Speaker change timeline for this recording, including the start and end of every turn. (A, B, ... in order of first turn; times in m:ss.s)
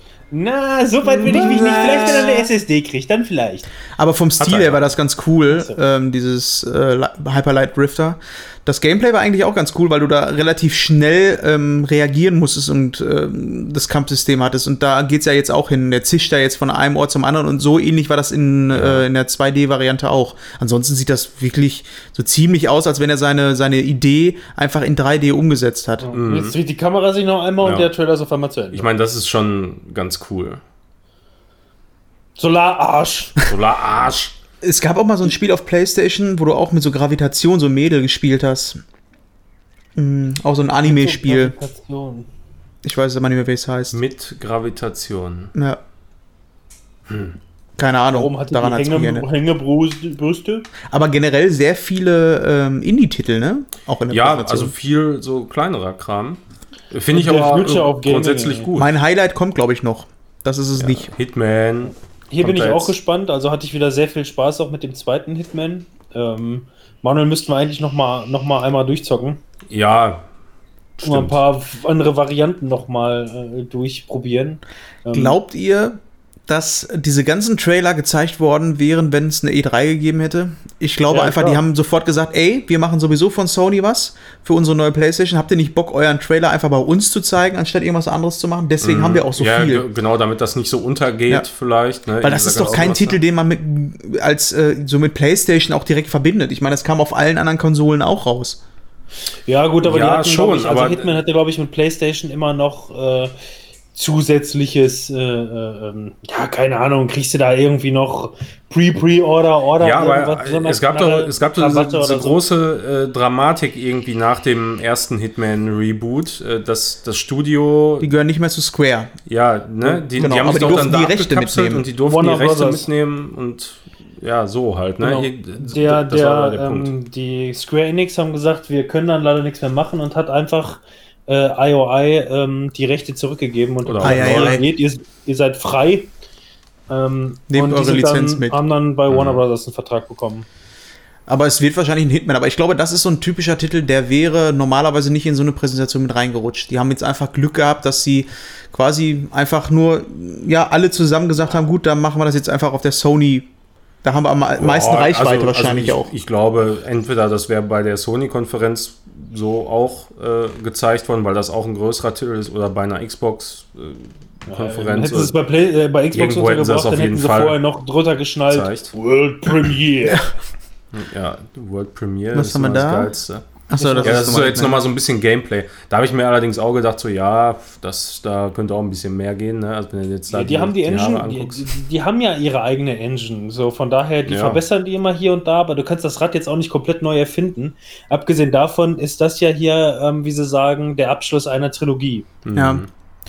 0:00.3-0:03.7 A
0:01.1-0:02.4 B
0:01.3-0:02.3 C
0:04.0-0:26.1 C
0:04.4-0:04.9 B
0:05.5-0:05.8 A
0:18.7-0:19.0 B
0:26.0-0:28.9 A
0:26.1-0:26.6 B
0:27.6-0:27.9 B
0:28.7-0:30.6 B
0:32.4-0:33.4 A
0:33.4-0:34.4 B
0:34.6-0:38.8 C
0:40.0-0:41.5 C
0:40.8-0:42.3 A
0:42.8-0:44.0 C
0:43.9-0:45.5 B
0:45.5-0:45.8 C
0:47.1-0:47.4 B
0:47.8-0:49.2 C
0:48.1-0:50.7 A
0:50.9-0:54.7 C
0:54.1-0:56.4 B
0:56.9-0:58.9 B
0:57.1-0:58.7 A
0:58.7-1:01.1 C
1:00.8-1:02.9 B
1:02.3-1:09.4 A
1:09.7-1:10.3 B
1:11.0-1:11.4 B
1:11.0-1:15.4 A
1:15.1-1:29.8 C
1:21.1-1:21.6 A
1:28.8-1:33.2 B
1:32.2-1:38.6 C
1:39.4-1:43.3 A
1:39.8-1:41.2 B
1:43.9-1:52.4 A
1:49.8-1:58.1 B
1:58.0-1:59.1 C
1:59.3-2:06.9 B
1:59.8-2:00.9 A
2:00.2-2:01.8 C
2:02.0-2:02.8 A
2:05.0-2:16.1 A
2:13.8-2:14.6 B
2:14.0-2:14.6 C
2:16.9-2:20.5 A
2:17.5-2:18.6 C
2:19.1-2:19.4 B
2:21.3-2:33.5 C
2:34.0-2:36.1 C
2:34.6-2:45.3 B
2:44.5-2:50.3 A
2:46.1-2:47.6 B
2:48.5-2:48.9 B
2:50.9-2:53.4 B
2:52.3-2:53.1 C
2:53.7-2:54.8 C
2:53.7-2:54.8 A
2:54.0-3:01.7 B
3:00.3-3:12.3 A
3:04.2-3:04.6 B
3:12.4-3:12.9 B
3:12.5-3:12.8 C